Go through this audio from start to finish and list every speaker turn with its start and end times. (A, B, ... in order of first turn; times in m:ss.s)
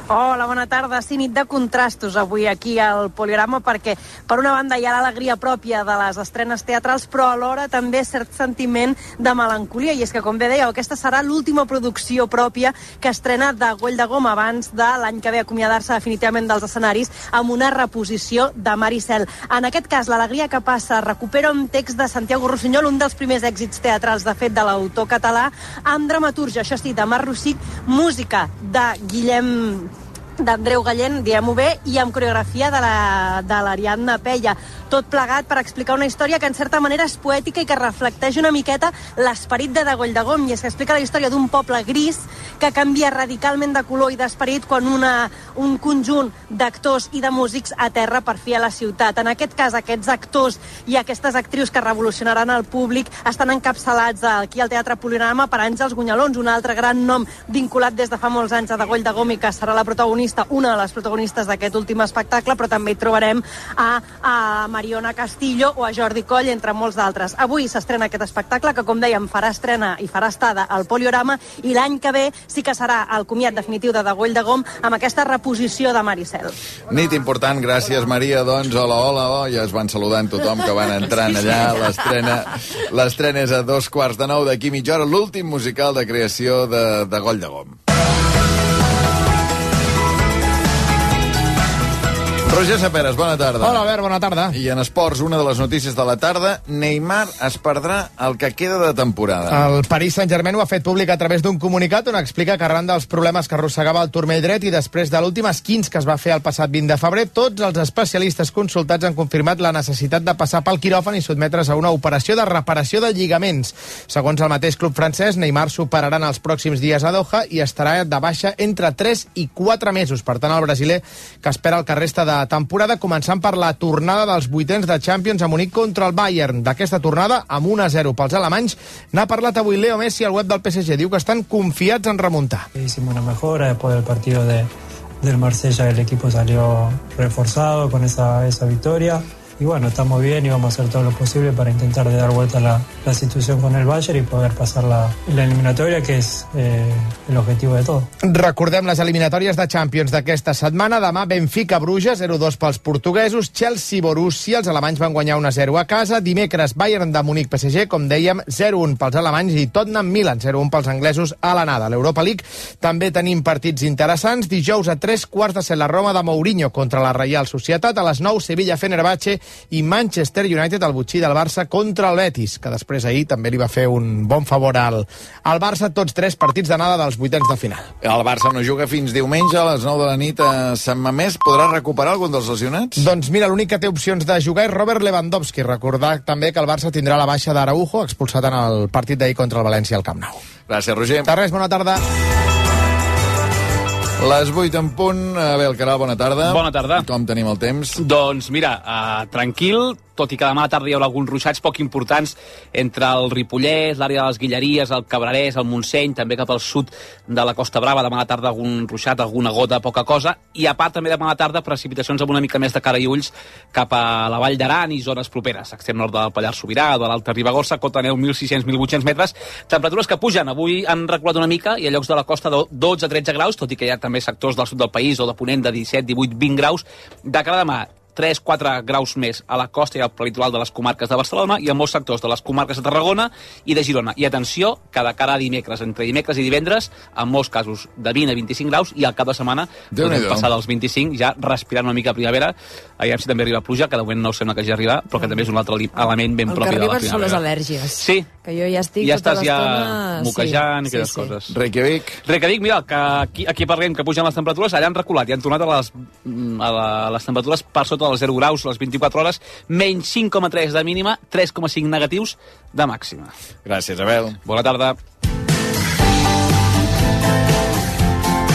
0:00.1-1:16.6 A
1:16.9-1:27.8 B
1:32.5-1:33.9 B
1:33.6-1:34.6 C
1:34.5-1:39.7 B
1:39.5-2:12.7 C
2:12.8-2:14.7 D
2:15.2-2:28.1 D
2:28.3-2:57.9 C
2:58.0-3:03.0 B
3:03.0-3:10.4 C
3:10.7-3:11.3 B
3:11.3-3:12.0 C
3:14.2-3:18.0 B
3:16.4-3:17.1 E
3:18.0-4:07.4 E
3:59.9-4:00.5 B
4:05.2-4:11.3 F
4:08.0-4:08.3 E
4:09.0-4:11.6 E
4:11.5-4:12.2 B
4:12.2-4:23.3 E
4:23.6-4:24.4 B
4:24.4-4:25.0 E